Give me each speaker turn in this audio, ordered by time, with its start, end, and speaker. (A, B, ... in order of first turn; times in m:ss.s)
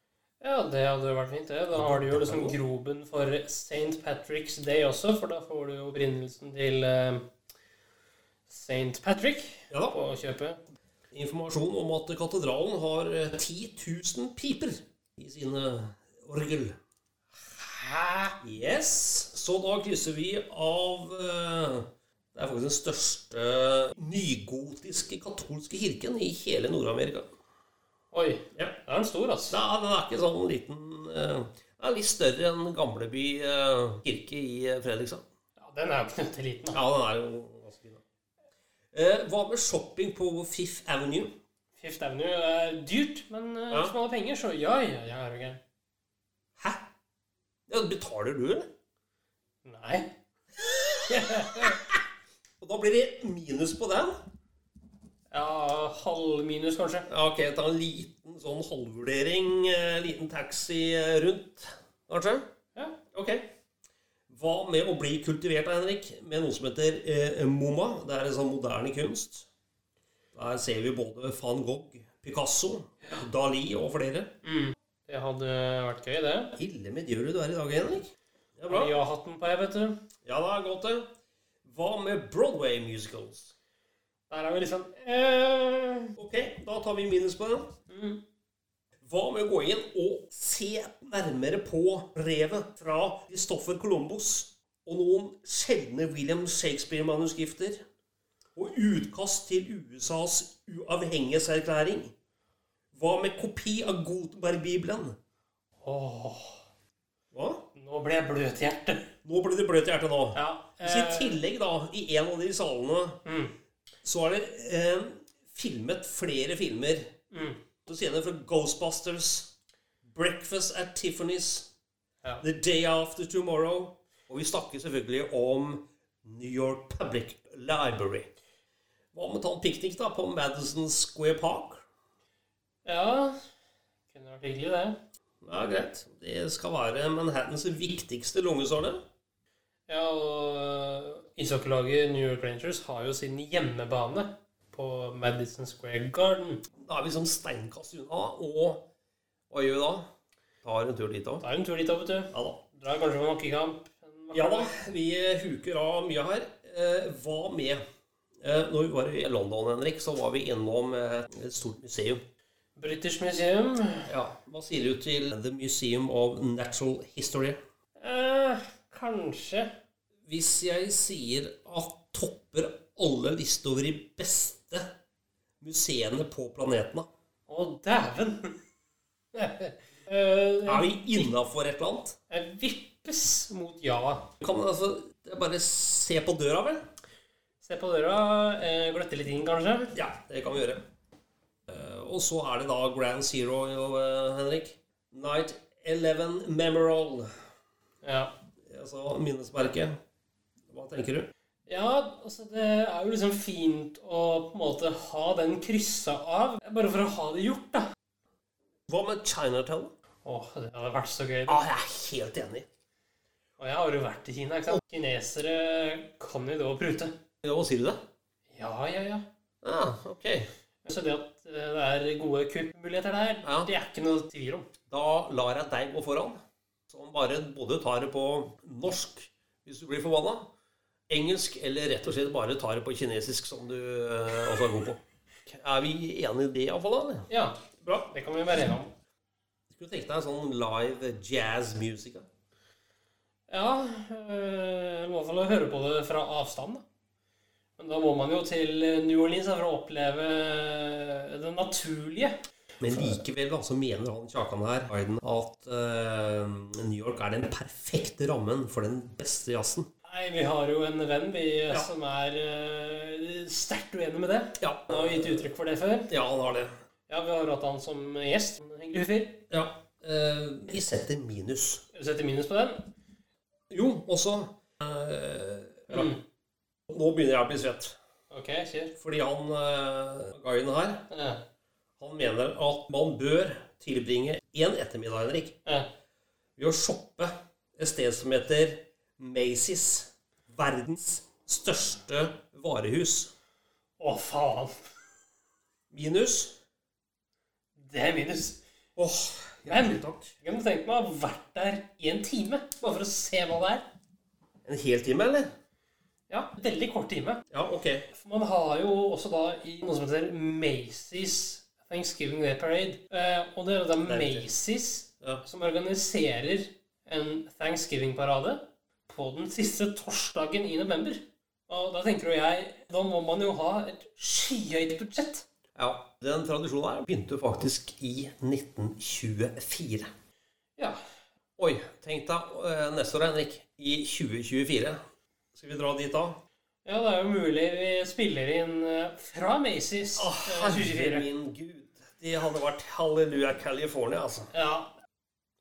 0:00.4-0:07.2 A
0:01.7-0:02.6 B
0:08.5-0:10.6 A
0:09.7-0:10.0 B
0:11.1-0:16.8 B
0:17.6-0:18.4 A
0:18.4-0:27.3 B
0:28.1-0:29.6 A
0:29.5-0:35.2 B
0:35.6-0:36.8 A
0:36.7-0:38.0 B
0:38.9-0:41.4 B
0:41.8-0:45.6 A
0:46.6-0:46.9 B
0:47.7-0:48.7 B
0:49.6-0:50.1 A
0:51.1-0:51.8 A
0:51.3-0:51.7 B
0:52.6-0:54.2 B
0:55.3-0:57.0 A
0:57.1-1:02.5 B
1:03.1-1:03.5 B
1:04.3-1:09.5 B
1:10.3-1:14.3 B
1:14.4-1:16.5 A
1:16.6-1:19.0 B
1:18.7-1:20.0 A
1:20.2-1:21.1 B
1:21.6-1:23.5 B
1:24.3-1:26.1 A
1:26.2-1:27.7 B
1:27.9-1:28.2 A
1:29.0-1:37.8 B
1:38.6-1:42.1 B
1:42.9-1:45.2 B
1:45.8-1:46.6 A
1:47.3-1:47.6 B
1:47.8-1:49.1 A
1:49.2-1:53.2 B
1:50.3-1:51.4 A
1:53.2-1:53.5 A
1:54.0-1:57.1 B
1:57.3-1:57.6 A
1:57.9-2:01.7 B
2:02.4-2:08.3 B
2:09.1-2:11.8 B
2:12.8-2:13.4 A
2:14.1-2:15.0 A
2:15.4-2:19.0 B
2:19.9-2:26.6 A
2:26.8-2:28.9 B
2:29.5-2:30.1 B
2:30.6-2:31.4 B
2:31.4-2:34.7 A
2:32.3-2:32.6 B
2:34.3-2:37.8 B
2:38.4-2:42.2 B
2:42.8-2:44.1 A
2:44.1-2:47.6 B
2:48.0-2:49.7 A
2:50.2-2:54.9 B
2:55.6-2:57.1 B
2:57.5-2:58.6 A
2:59.4-3:01.3 A
3:00.7-3:02.2 B
3:02.3-3:04.3 A
3:04.4-3:06.8 B
3:07.6-3:09.9 A
3:09.9-3:10.8 B
3:11.7-3:17.3 B
3:18.0-3:18.3 A
3:18.7-3:20.0 B
3:20.7-3:21.3 B
3:21.7-3:27.9 A
3:28.9-3:29.9 B
3:30.2-3:31.6 A
3:31.5-3:32.6 B
3:33.6-3:37.2 A
3:37.4-3:38.0 B
3:38.5-3:39.2 A
3:39.6-3:40.5 B
3:40.8-3:44.7 A
3:43.4-3:43.7 B
3:44.9-3:50.5 B
3:51.1-3:57.3 B
3:57.3-3:58.9 A
3:59.7-4:02.3 B
4:03.5-4:06.8 A
4:07.8-4:12.4 A
4:12.8-4:19.9 B
4:20.1-4:26.1 A
4:24.6-4:25.5 B
4:26.1-4:26.7 B
4:27.1-4:29.4 A
4:29.5-4:31.8 B
4:31.9-4:32.8 A
4:33.7-4:36.1 B
4:35.9-4:36.2 A
4:36.9-4:38.0 B
4:38.3-4:38.9 A
4:39.0-4:41.0 B
4:41.1-4:41.4 A
4:42.0-4:45.6 B
4:46.6-4:53.3 B
4:54.0-4:54.8 A
4:55.9-4:56.6 B
4:57.8-4:58.6 A
4:59.0-5:00.3 B
4:59.7-5:03.8 A
5:04.6-5:05.5 B
5:06.3-5:07.4 A
5:07.5-5:08.0 B
5:08.1-5:25.4 A
5:14.0-5:14.5 B
5:25.8-5:30.1 B
5:31.6-5:35.0 B
5:35.5-5:36.4 B
5:36.8-5:41.3 A
5:40.2-5:44.5 B
5:44.5-5:44.9 A